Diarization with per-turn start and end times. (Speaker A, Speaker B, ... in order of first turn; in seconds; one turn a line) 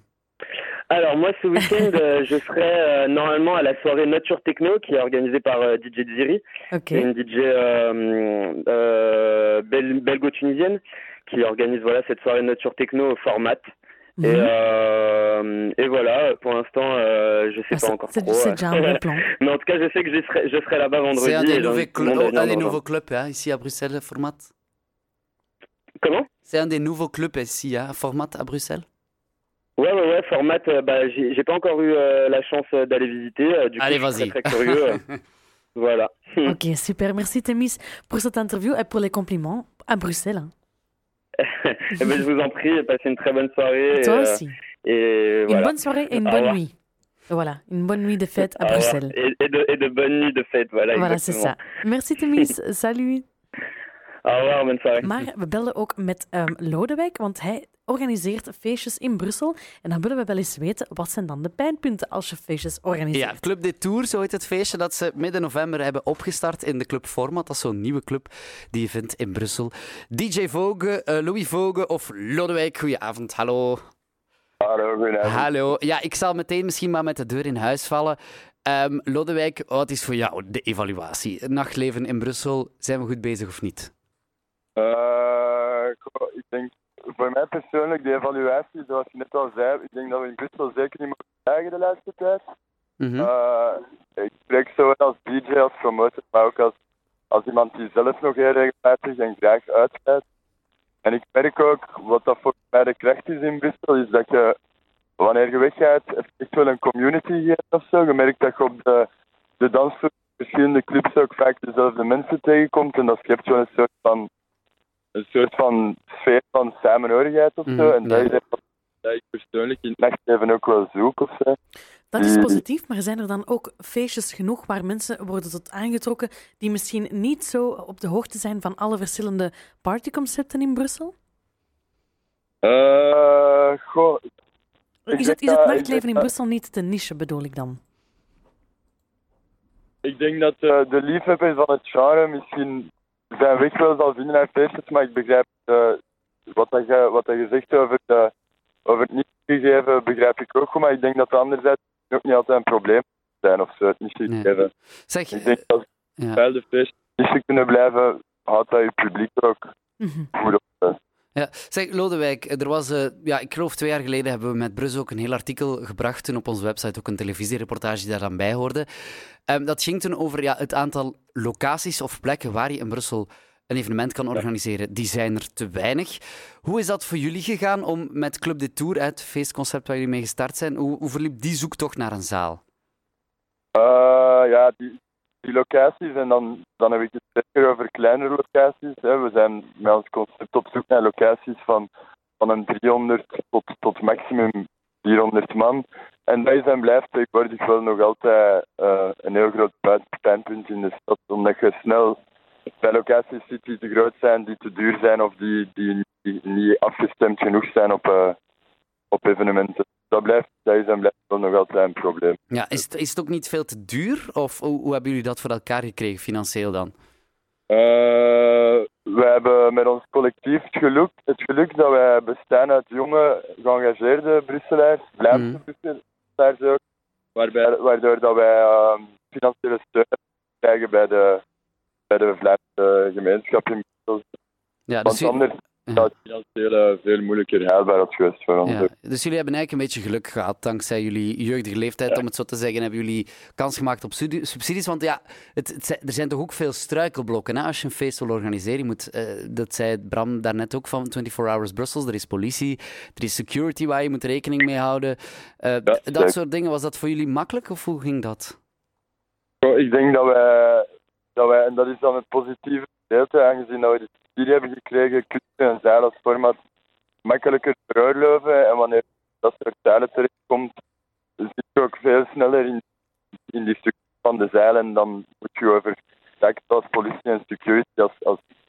Speaker A: 0.9-13.7
Speaker B: 6.7-7.1
Speaker B: 14.2-14.5
Speaker A: 14.2-22.8
Speaker B: 17.7-19.3
Speaker C: 21.1-24.5
Speaker A: 26.0-26.3
Speaker C: 26.5-28.9
Speaker A: 29.8-35.0
Speaker C: 33.8-35.1
Speaker A: 35.8-36.6
Speaker B: 36.4-40.5
Speaker A: 41.4-46.6
Speaker B: 41.9-42.2
Speaker B: 43.9-44.5
Speaker B: 45.5-46.7
Speaker B: 47.3-49.1
Speaker A: 48.5-51.6
Speaker B: 50.9-53.2
Speaker A: 54.2-55.1
Speaker B: 55.0-63.4
Speaker C: 63.1-73.9
Speaker D: 74.6-75.7
Speaker C: 75.2-83.9
Speaker D: 84.8-92.4
Speaker C: 93.0-93.3
Speaker D: 93.2-96.7
Speaker D: 97.3-100.2
Speaker D: 101.0-104.6
Speaker D: 105.2-114.3
Speaker D: 115.1-121.6
Speaker C: 117.7-118.3
Speaker B: 122.1-131.1
Speaker D: 122.2-122.6
Speaker D: 132.6-134.2
Speaker B: 135.1-137.8
Speaker D: 135.1-136.3
Speaker D: 140.0-146.0
Speaker D: 146.5-148.3
Speaker D: 148.9-154.7
Speaker C: 154.3-154.5
Speaker C: 155.1-155.6
Speaker D: 155.3-155.8
Speaker D: 156.4-159.7
Speaker B: 160.0-160.3
Speaker D: 160.3-161.0
Speaker C: 161.3-168.9
Speaker C: 169.5-182.6
Speaker D: 183.8-191.9
Speaker D: 192.4-202.2
Speaker D: 202.8-208.4
Speaker D: 209.1-212.4
Speaker C: 212.5-216.9
Speaker D: 217.7-226.8
Speaker C: 225.3-225.6
Speaker D: 227.4-231.4
Speaker D: 232.1-234.2
Speaker C: 234.9-236.1
Speaker D: 235.1-238.9
Speaker C: 238.6-258.6
Speaker D: 255.9-256.3
Speaker D: 259.6-266.6
Speaker D: 267.2-270.7
Speaker D: 271.4-272.8
Speaker D: 273.5-278.4